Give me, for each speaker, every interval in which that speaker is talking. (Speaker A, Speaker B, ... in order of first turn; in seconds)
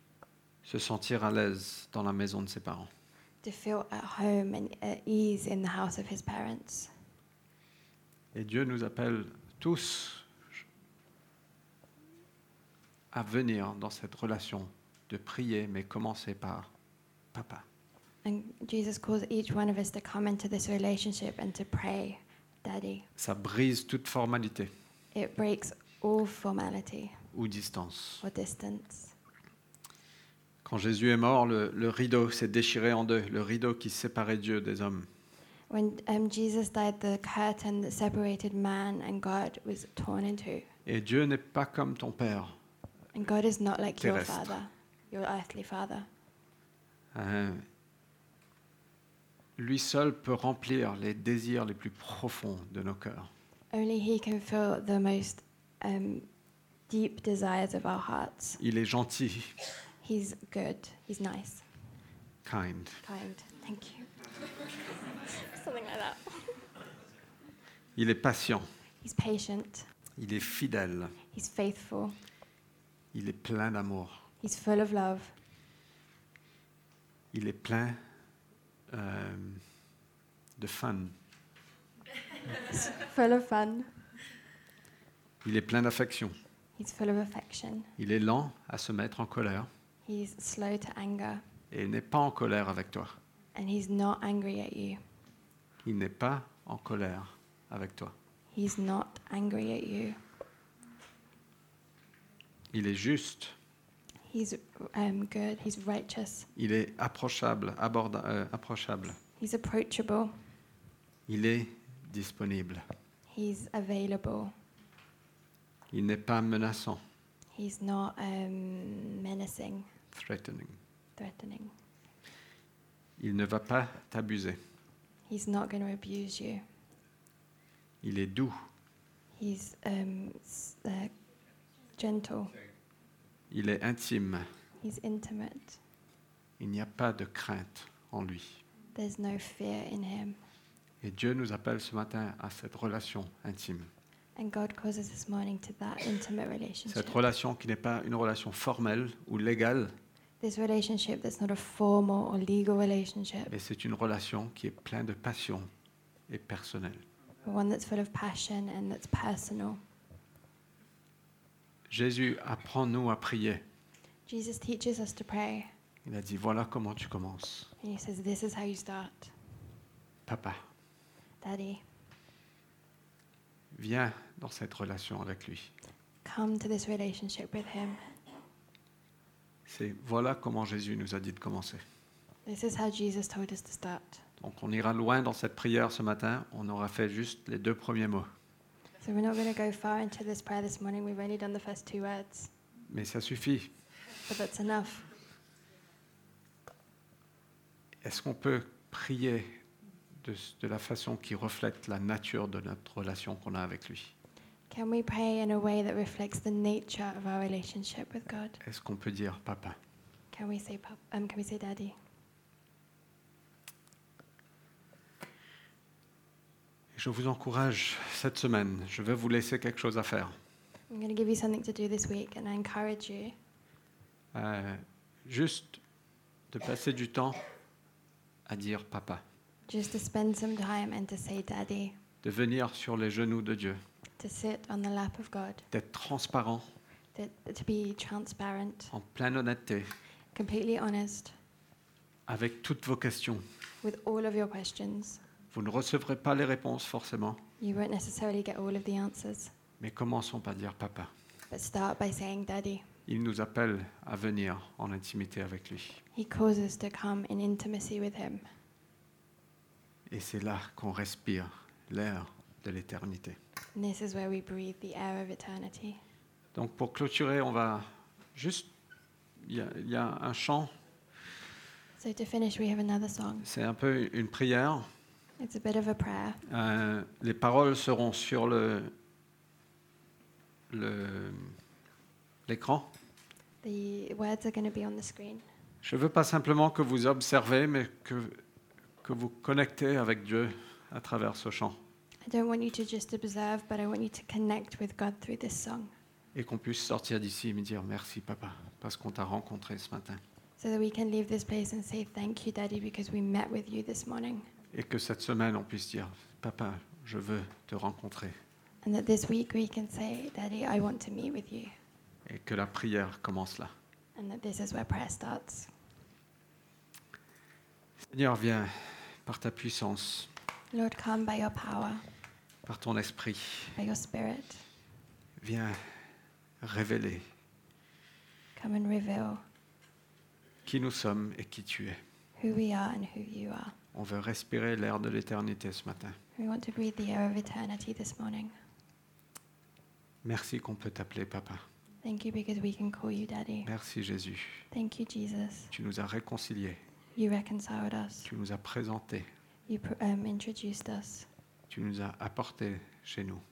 Speaker A: 0.7-2.9, 8.3-10.3, 13.1-16.7, 17.3-17.6, 23.2-24.7, 27.3-28.2, 30.6-35.1, 40.9-42.6, 44.0-44.5, 47.1-47.6, 49.6-53.3, 58.6-59.5, 62.5-63.0, 68.0-68.7, 70.2-71.2, 73.1-74.2, 77.3-78.0, 78.9-79.6, 80.6-81.2, 85.4-86.3, 88.0-89.7, 91.7-93.2, 95.8-98.2, 102.7-103.5, 106.5-109.2, 111.3-112.8, 115.9-117.0, 120.1-120.8, 123.2-124.6, 128.0-128.6, 133.5-134.4, 136.6-138.6, 141.0-143.9, 146.9-149.9, 153.5-155.7, 156.3-157.0, 161.9-163.6, 166.1-167.7, 170.3-170.6, 173.7-175.7, 179.7-181.8, 184.4-188.3, 192.9-193.7, 198.0-199.6, 200.2-204.1, 208.6-209.8, 216.9-220.3, 224.3-225.8, 226.5-227.4, 228.5-229.2, 232.2-233.8, 235.7-236.7, 238.9-239.9, 242.3-243.4, 245.5-247.4, 249.8-251.1, 253.1-256.0, 260.1-263.4, 266.6-268.7, 269.4-270.7, 273.4-274.9, 276.5-278.9, 280.7-281.5, 282.5-282.9, 285.8-288.4, 289.0-291.8, 296.3-300.2, 304.7-308.3, 312.3-313.7, 318.1-320.3, 322.6-323.8, 325.4-325.9, 326.6-327.3, 330.7-332.0, 333.9-336.2, 340.2-341.6, 343.6-344.7, 345.7-346.8, 348.3-349.3, 351.7-353.4
Speaker B: 3.4-6.9, 18.2-23.1, 25.1-27.2, 28.2-29.1, 35.7-40.7, 43.1-46.1, 53.7-56.3, 56.9-58.6, 60.0-61.6, 63.0-64.1, 65.3-66.6, 69.0-69.9, 71.3-72.2, 74.4-75.3, 82.6-83.9, 86.8-87.9, 90.1-91.4, 93.5-95.0, 98.5-100.2, 104.3-106.5, 109.4-110.3, 113.3-114.5, 117.5-119.9, 121.2-121.7, 125.3-126.6, 129.4-131.1, 132.0-132.6, 134.8-135.8, 138.9-140.4, 144.4-147.2, 150.4-153.5, 157.4-159.8, 164.3-165.7, 167.8-169.3, 171.4-171.8, 176.2-178.0, 182.5-184.2, 189.0-192.5, 194.3-195.1, 204.7-208.6, 210.3-211.9, 220.9-223.3, 229.7-232.0, 234.2-235.7, 237.2-238.9, 240.3-241.3, 243.8-245.2, 247.6-249.5, 251.5-252.9, 256.1-258.4, 263.8-266.0, 272.0-273.5, 275.4-276.4, 283.6-285.4, 292.2-295.9, 300.6-304.5, 308.8-311.8, 314.2-315.7, 320.7-322.0, 323.8-324.6, 328.6-329.4, 332.4-333.8, 336.4-338.5, 342.0-343.7, 344.7-345.7, 347.2-348.3, 349.7-351.3